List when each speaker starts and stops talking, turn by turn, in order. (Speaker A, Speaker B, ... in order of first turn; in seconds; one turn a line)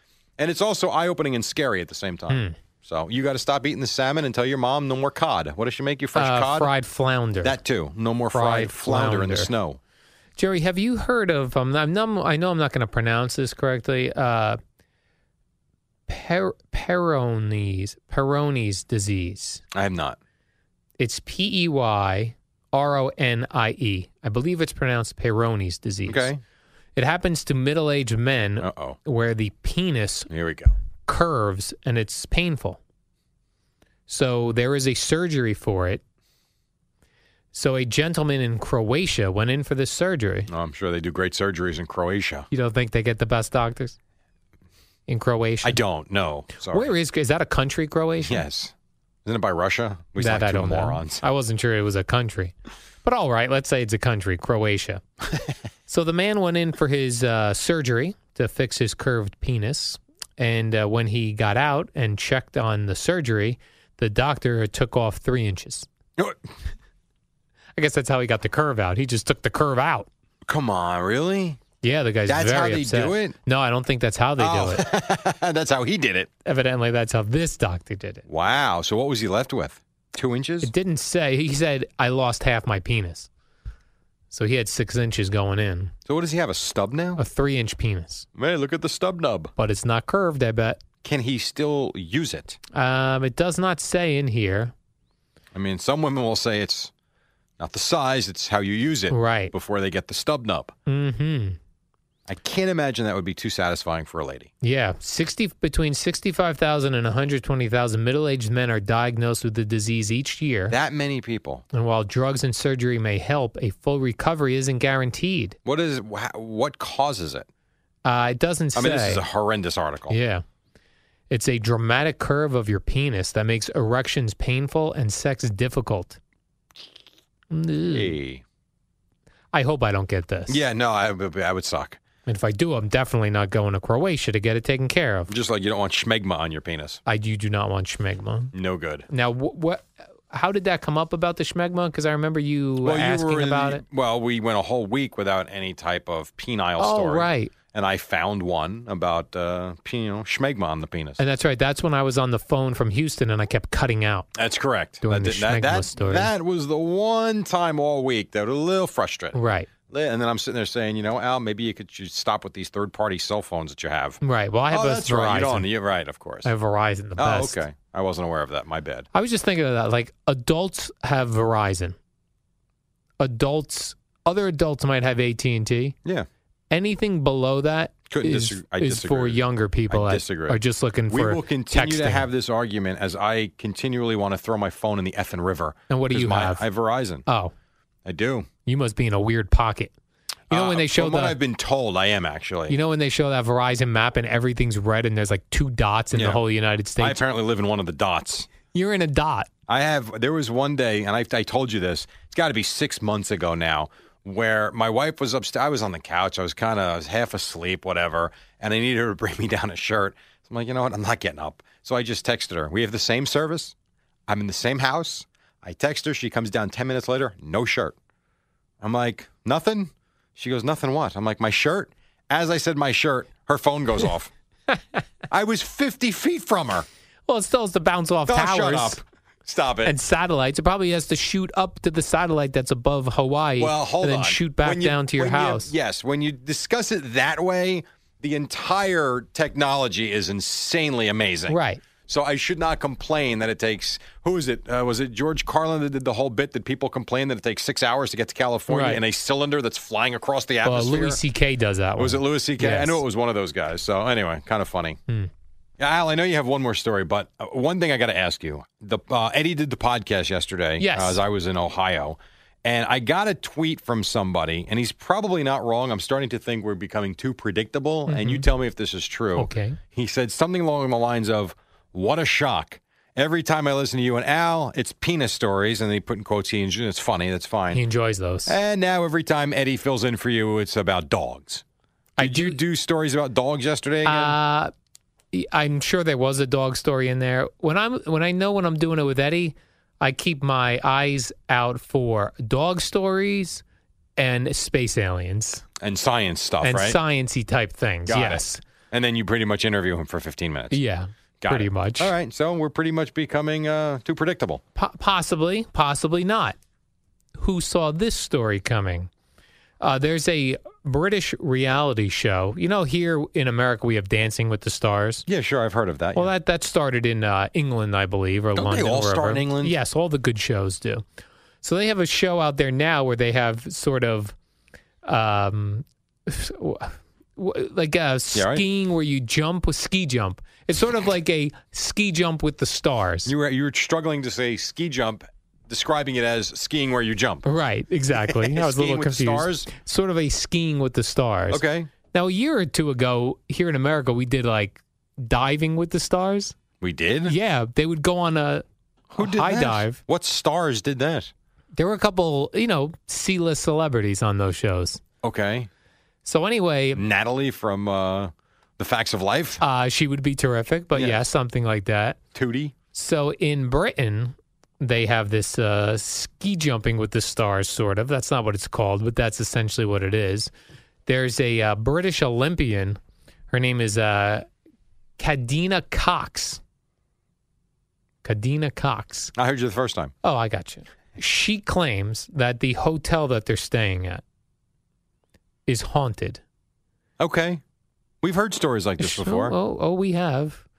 Speaker A: 0.4-6.7
Speaker B: 2.3-2.6
Speaker B: 6.2-7.5
Speaker A: 7.4-9.8
Speaker B: 8.3-9.5
Speaker B: 10.4-14.6
Speaker B: 16.1-19.6
Speaker A: 19.7-20.2
Speaker B: 21.0-26.3
Speaker A: 26.1-26.4
Speaker B: 27.0-30.3
Speaker A: 28.6-29.0
Speaker A: 30.3-30.8
Speaker B: 31.1-32.8
Speaker B: 34.1-36.0
Speaker B: 37.5-40.5
Speaker A: 40.5-42.5
Speaker B: 42.5-44.0
Speaker B: 45.1-45.8
Speaker A: 45.6-46.9
Speaker B: 46.7-48.4
Speaker A: 48.3-48.7
Speaker A: 49.2-51.2
Speaker B: 50.2-55.0
Speaker B: 55.9-65.9
Speaker B: 67.8-70.1
Speaker A: 70.5-71.6
Speaker B: 71.8-74.8
Speaker A: 72.3-73.4
Speaker A: 74.4-76.3
Speaker B: 76.5-78.2
Speaker A: 78.3-80.7
Speaker B: 80.6-83.3
Speaker B: 84.3-85.9
Speaker A: 86.1-87.2
Speaker B: 87.2-88.3
Speaker A: 88.4-89.5
Speaker B: 89.6-90.8
Speaker A: 91.0-92.6
Speaker B: 92.7-94.7
Speaker A: 95.5-96.9
Speaker A: 97.6-100.7
Speaker B: 99.1-99.5
Speaker B: 100.9-101.6
Speaker A: 102.3-104.5
Speaker B: 104.6-110.8
Speaker A: 110.7-111.7
Speaker B: 111.7-115.6
Speaker A: 115.7-117.5
Speaker B: 118.0-119.2
Speaker A: 118.8-120.2
Speaker B: 120.1-120.4
Speaker B: 121.3-126.2
Speaker B: 127.5-128.1
Speaker A: 127.9-128.4
Speaker B: 129.5-130.6
Speaker A: 130.5-132.0
Speaker B: 132.3-135.3
Speaker A: 135.3-137.0
Speaker B: 137.1-138.5
Speaker A: 138.5-139.1
Speaker B: 139.1-143.8
Speaker A: 142.8-151.2
Speaker B: 146.8-147.5
Speaker B: 151.2-154.3
Speaker A: 154.3-159.4
Speaker B: 155.0-156.3
Speaker B: 159.3-159.7
Speaker A: 159.9-164.2
Speaker B: 164.2-165.7
Speaker A: 164.7-166.5
Speaker B: 166.4-167.6
Speaker A: 167.2-169.1
Speaker B: 169.1-172.0
Speaker B: 173.2-175.9
Speaker B: 176.7-182.3
Speaker A: 178.1-187.2
Speaker B: 185.9-186.7
Speaker B: 187.3-187.5
Speaker A: 188.1-188.5
Speaker B: 188.7-189.9
Speaker A: 190.5-192.8
Speaker B: 190.5-191.4
Speaker B: 192.7-197.2
Speaker A: 196.2-196.4
Speaker A: 197.0-198.5
Speaker B: 198.7-199.5
Speaker A: 199.7-213.7
Speaker A: 214.3-217.9
Speaker A: 218.8-224.3
Speaker A: 225.3-226.9
Speaker B: 227.3-229.0
Speaker A: 228.3-229.9
Speaker B: 229.8-235.7
Speaker A: 233.6-251.2
Speaker B: 241.5-241.8
Speaker B: 248.7-249.0
Speaker B: 250.6-253.0
Speaker A: 252.0-255.0
Speaker A: 255.8-277.8
Speaker B: 260.8-261.2
Speaker B: 268.1-268.5
Speaker B: 269.4-269.8
Speaker B: 277.7-278.6
Speaker A: 278.5-281.6
Speaker B: 282.2-282.6
Speaker A: 282.2-284.4
Speaker B: 284.1-284.7
Speaker B: 285.3-293.6
Speaker B: 294.2-295.6
Speaker A: 295.8-297.0
Speaker B: 296.6-298.6
Speaker A: 298.1-300.8
Speaker B: 300.7-302.1
Speaker A: 301.4-304.6
Speaker B: 304.8-306.6
Speaker B: 307.4-309.1
Speaker B: 309.8-315.2
Speaker A: 315.3-316.3
Speaker B: 316.1-321.0
Speaker A: 318.6-319.8
Speaker B: 321.6-324.4
Speaker B: 325.1-333.3
Speaker A: 328.3-328.6
Speaker A: 333.3-337.5
Speaker B: 337.4-346.6
Speaker A: 338.3-339.7
Speaker A: 341.5-341.9
Speaker A: 346.8-347.4
Speaker B: 347.3-348.6
Speaker A: 349.1-351.3
Speaker B: 349.2-350.0
Speaker B: 351.8-355.0
Speaker A: 355.2-355.7
Speaker B: 356.2-357.0
Speaker A: 357.0-359.6
Speaker B: 359.6-362.2
Speaker A: 360.9-361.2
Speaker A: 362.4-362.7
Speaker B: 362.9-370.5
Speaker B: 371.1-373.0
Speaker B: 373.5-374.5
Speaker B: 375.2-376.6
Speaker B: 378.2-379.3
Speaker A: 379.4-380.1
Speaker B: 380.2-384.2
Speaker B: 385.7-386.4
Speaker A: 387.2-387.6
Speaker A: 388.2-389.6
Speaker B: 389.0-390.6